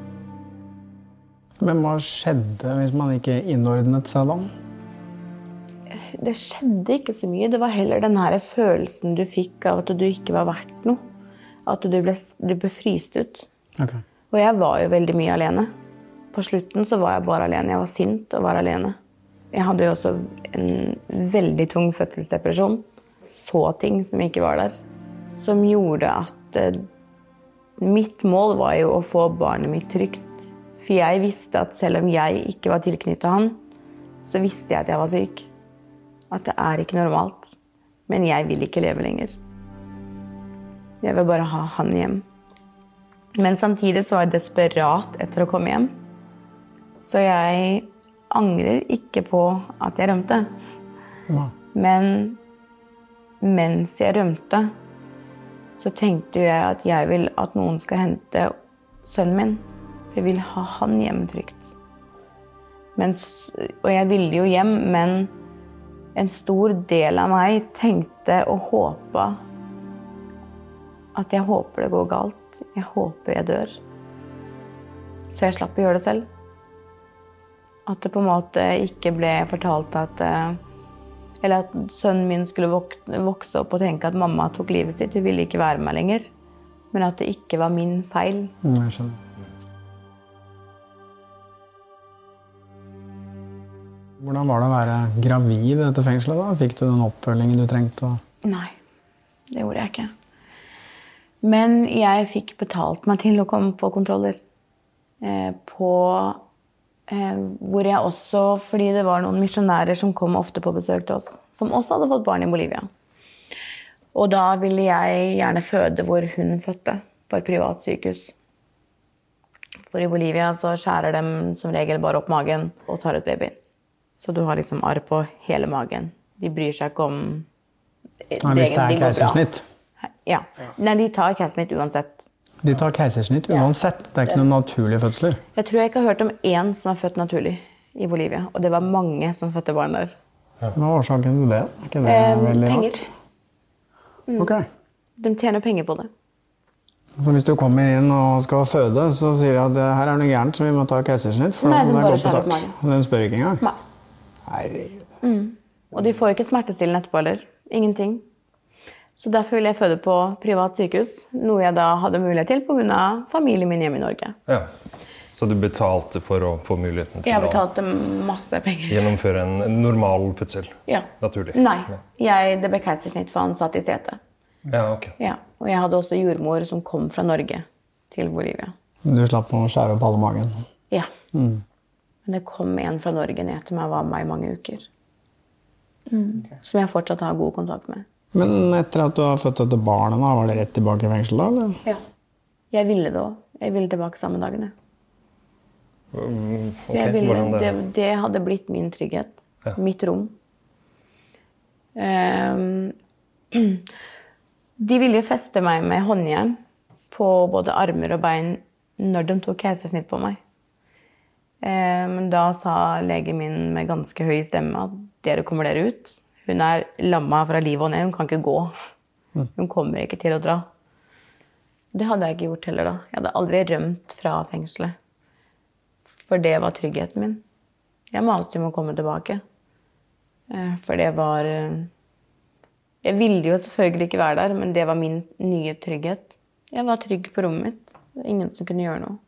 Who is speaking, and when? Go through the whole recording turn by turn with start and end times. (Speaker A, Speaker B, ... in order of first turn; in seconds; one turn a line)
Speaker A: 1.6-4.5
Speaker B: 5.9-11.0
Speaker B: 11.7-13.5
Speaker B: 14.3-15.7
Speaker B: 16.3-18.9
Speaker B: 19.5-24.8
Speaker B: 25.4-26.9
Speaker B: 27.8-33.6
Speaker B: 34.2-35.5
Speaker B: 36.3-37.5
Speaker B: 38.1-39.4
Speaker B: 41.0-42.2
Speaker B: 43.3-45.9
Speaker B: 47.0-50.5
Speaker B: 51.7-52.4
Speaker B: 53.4-54.7
Speaker B: 55.8-58.5
Speaker B: 59.0-61.7
Speaker B: 63.0-65.3
Speaker B: 66.1-69.4
Speaker B: 71.1-73.8
Speaker B: 75.3-76.3
Speaker B: 77.9-80.6
Speaker B: 81.4-86.3
Speaker B: 86.9-88.5
Speaker A: 88.6-89.2
Speaker A: 94.2-98.2
Speaker B: 98.4-98.7
Speaker B: 99.5-100.1
Speaker B: 101.4-104.4
Speaker B: 105.2-106.4
Speaker B: 107.1-112.9
Speaker B: 114.1-118.3
Speaker B: 119.9-123.6
Speaker B: 124.2-127.5
Speaker B: 128.3-129.4
Speaker A: 128.4-129.6
Speaker B: 130.0-132.2
Speaker A: 132.6-135.4
Speaker B: 135.5-140.1
Speaker A: 140.7-142.9
Speaker B: 142.0-143.1
Speaker A: 144.4-144.7
Speaker B: 145.2-146.1
Speaker A: 147.2-153.6
Speaker B: 151.6-152.7
Speaker A: 154.4-155.1
Speaker B: 155.2-158.2
Speaker B: 159.2-164.3
Speaker C: 165.3-167.6
Speaker B: 167.2-169.1
Speaker C: 168.9-172.0
Speaker B: 170.9-174.2
Speaker C: 174.7-175.2
Speaker B: 175.2-178.7
Speaker A: 179.0-180.6
Speaker A: 181.3-181.6
Speaker B: 182.2-184.9
Speaker B: 186.1-188.1
Speaker A: 188.3-191.8
Speaker B: 192.7-194.7
Speaker C: 196.1-197.8
Speaker B: 196.9-200.3
Speaker B: 201.9-202.9
Speaker B: 203.5-203.8
Speaker B: 204.8-206.6
Speaker B: 207.1-210.4
Speaker B: 211.6-218.7
Speaker B: 219.5-220.7
Speaker B: 221.9-224.9
Speaker B: 226.3-227.4
Speaker B: 228.1-229.4
Speaker B: 230.5-231.9
Speaker B: 233.0-239.2